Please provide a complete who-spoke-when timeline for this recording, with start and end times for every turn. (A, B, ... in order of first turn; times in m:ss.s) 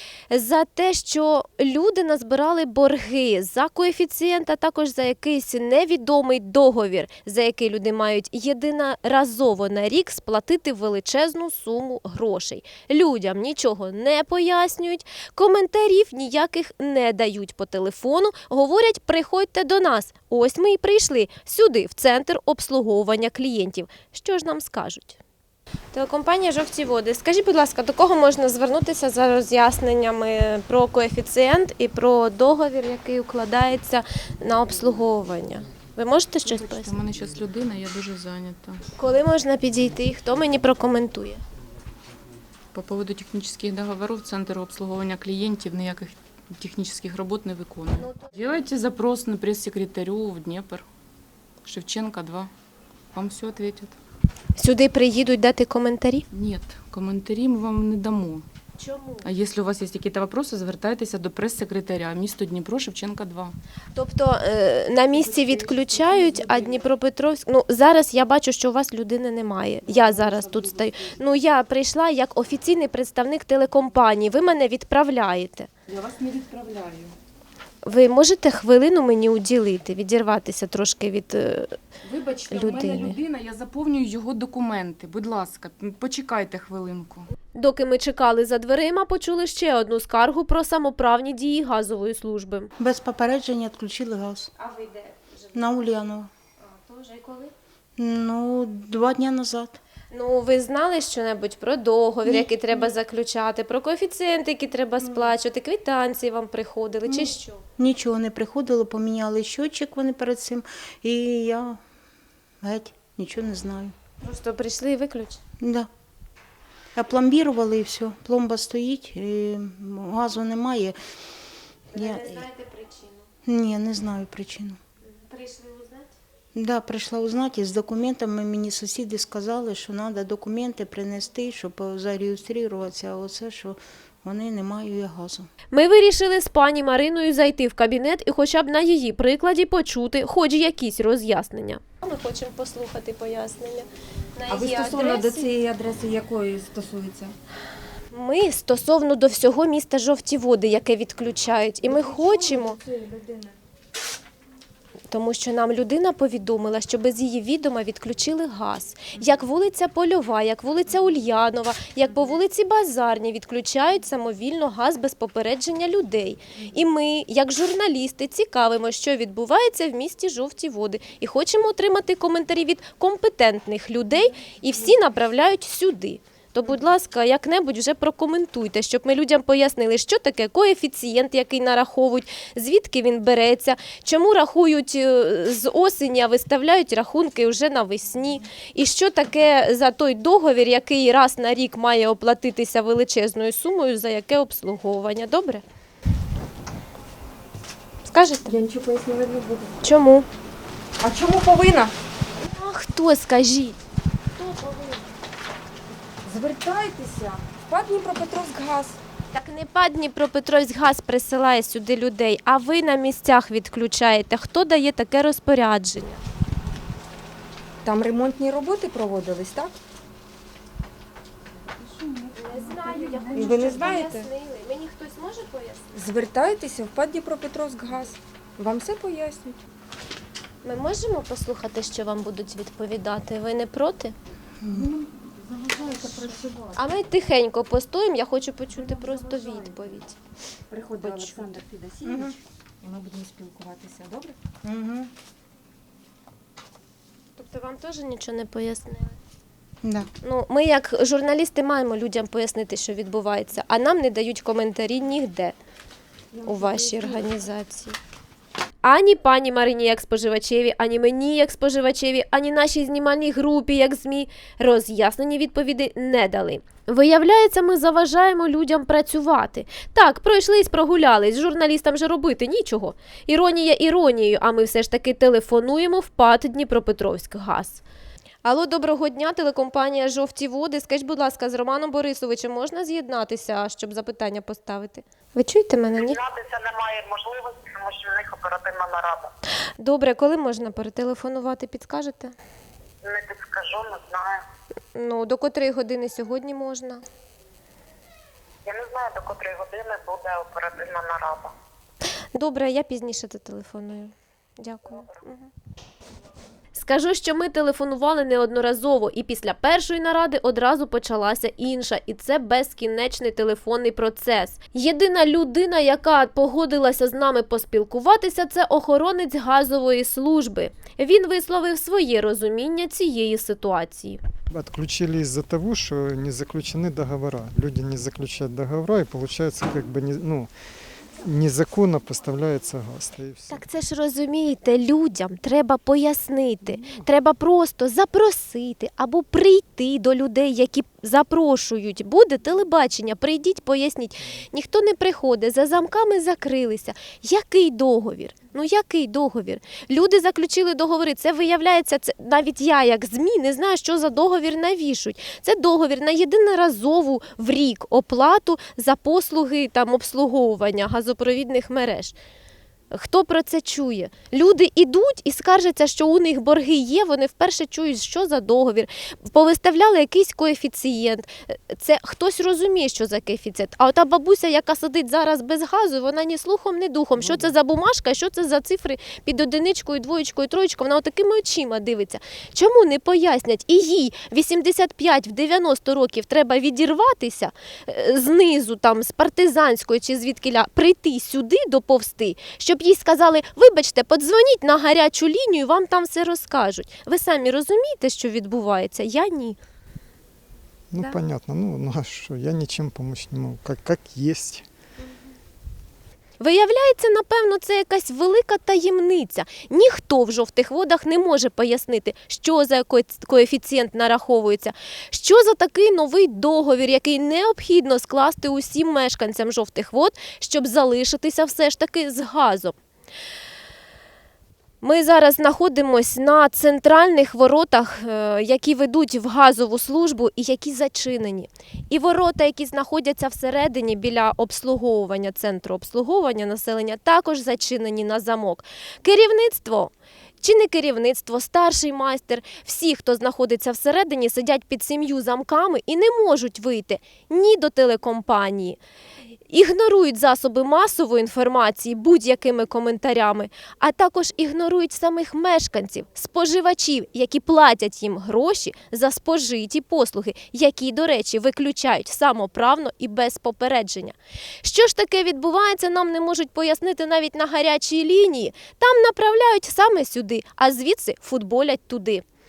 0:00.3-0:25.2 A
0:25.9-0:36.9 A
0:36.4-0:38.8 B
0:38.9-0:41.4 A
0:42.7-0:50.8 B
0:51.6-0:52.5 B
0:53.1-0:54.0 B
0:54.6-0:56.2 A
0:56.3-0:58.4 B
0:58.8-0:59.3 A
0:59.2-1:03.6 B
1:03.9-1:15.7 A
1:05.1-1:06.8 B
1:09.9-1:11.1 B
1:15.9-1:17.2 B
1:17.8-1:21.8 A
1:22.0-1:27.3 B
1:22.5-1:23.2 A
1:27.5-1:32.7 A
1:32.8-1:34.5 C
1:34.6-1:35.7 A
1:35.5-1:36.3 C
1:36.6-1:37.5 A
1:38.0-1:39.8 C
1:40.1-1:47.6 A
1:42.2-1:42.9 C
1:47.0-1:51.8 C
1:52.6-1:53.9 C
1:54.2-1:55.4 A
1:55.6-1:55.9 C
1:57.0-2:01.0 C
2:01.9-2:03.2 A
2:01.9-2:02.4 C
2:03.4-2:04.8 C
2:05.0-2:06.1 A
2:06.5-2:15.5 C
2:15.7-2:25.5 A
2:24.5-2:27.3 D
2:28.1-2:32.8 A
2:31.8-2:33.6 D
2:35.1-3:15.6 A
3:18.0-3:18.5 A
3:18.4-3:19.7 D
3:19.8-3:20.3 A
3:21.0-3:21.9 D
3:22.4-3:23.8 A
3:24.4-3:25.1 A
3:26.2-3:29.0 D
3:29.3-3:36.2 A
3:37.8-3:39.8 D
3:42.0-3:43.0 C
3:42.3-3:45.9 A
3:43.3-3:44.3 D
3:45.9-3:49.6 D
3:50.6-3:54.1 A
3:54.6-3:55.0 C
3:55.2-3:56.9 D
3:56.7-4:00.2 A
3:58.8-3:59.9 D
4:00.7-4:04.4 D
4:01.0-4:01.5 A
4:02.0-4:02.4 C
4:04.6-4:05.1 C
4:07.4-4:09.2 A
4:09.8-4:10.1 C
4:10.2-4:15.6 A
4:16.3-4:17.2 D
4:16.4-4:18.0 A
4:18.8-4:37.8 A
4:38.4-4:46.2 A
4:46.0-4:49.3 E
4:49.8-4:52.3 A
4:53.0-4:54.4 E
4:54.9-4:57.0 A
4:58.6-5:01.5 E
5:02.3-5:05.5 A
5:06.7-5:24.2 A
5:24.5-5:30.5 F
5:31.2-5:33.6 F
5:33.5-6:02.1 A
6:02.9-6:39.6 A
6:17.2-6:17.5 F
6:40.9-6:44.6 F
6:46.4-7:02.7 A
7:04.8-7:28.8 A
7:29.5-7:52.2 A